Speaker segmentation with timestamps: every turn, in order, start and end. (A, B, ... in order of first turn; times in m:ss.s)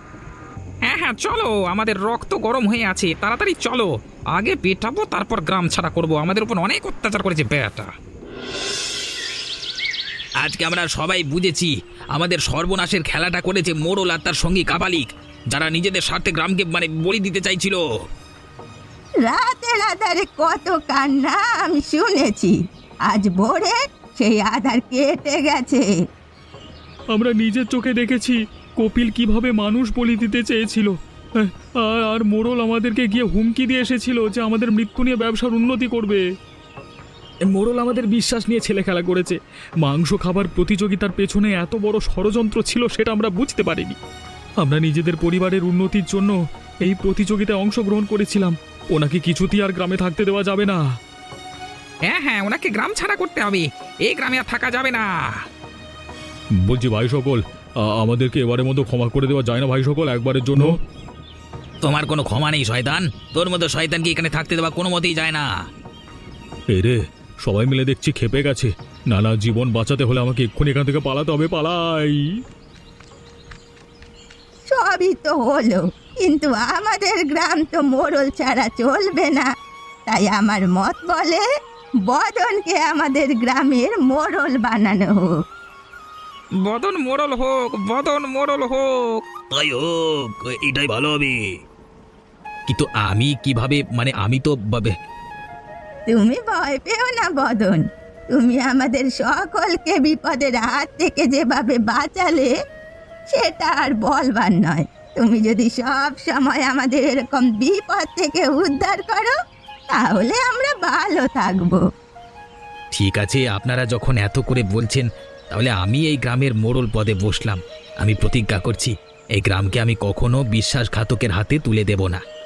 0:00.8-0:07.9 A
0:10.4-0:17.8 B
0:19.2-0:22.6 C
0:23.1-0:25.8 C
0:27.1-0:36.2 D
0:37.5-0:44.0 D
0:44.6-0:50.8 D
0:52.0-0:55.2 A
0:56.6-1:00.8 D
1:01.8-1:05.5 B
1:06.7-1:12.2 D
1:14.7-1:19.5 C
1:20.1-1:21.4 C
1:22.0-1:25.2 C
1:26.6-1:29.2 A
1:29.5-1:31.4 B
1:32.7-1:34.9 B
1:36.1-1:42.5 C
1:43.3-1:49.3 C
1:49.9-1:51.8 C
1:52.9-2:02.2 B